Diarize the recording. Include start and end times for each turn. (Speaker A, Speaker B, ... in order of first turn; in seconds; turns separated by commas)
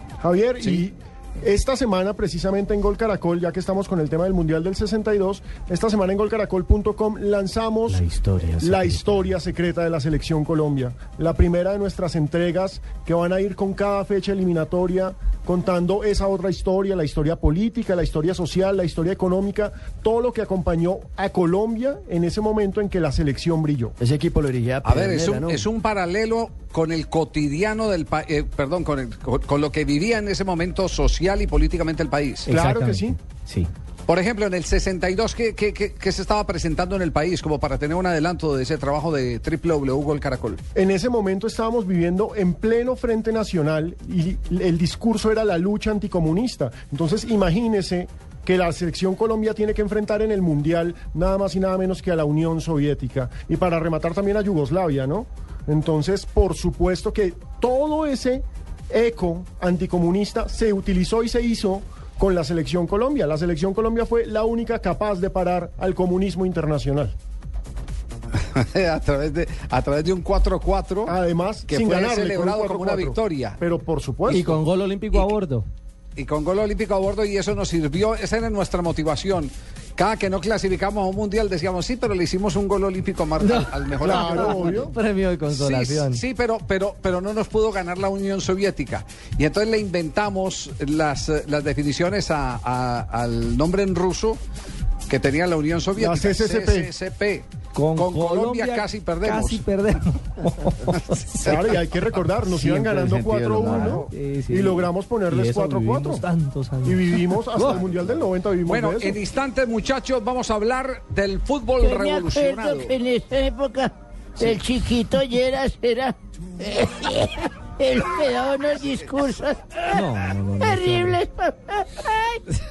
Speaker A: 0.2-8.1, Speaker B: 0.6-0.8, Speaker C: 7.9-9.3, Speaker A: 8.6-24.0, Speaker D: 24.0-25.7, Speaker B: 24.8-32.5, Speaker C: 32.5-33.7, Speaker A: 32.5-33.2, Speaker B: 34.1-40.6, Speaker A: 40.8-67.2, Speaker B: 68.5-73.6, Speaker A: 71.1-74.6, Speaker C: 74.3-75.7, Speaker B: 76.2-84.9, Speaker C: 83.4-86.2, Speaker A: 84.0-84.9, Speaker B: 85.5-94.4, Speaker B: 95.1-99.7, Speaker A: 96.0-96.9, Speaker C: 97.7-101.6, Speaker A: 101.4-106.2, Speaker D: 102.5-104.1, Speaker C: 103.7-107.8, Speaker A: 106.8-109.2, Speaker B: 108.6-112.9, Speaker E: 111.8-120.1, Speaker C: 119.9-121.2, Speaker E: 120.6-122.4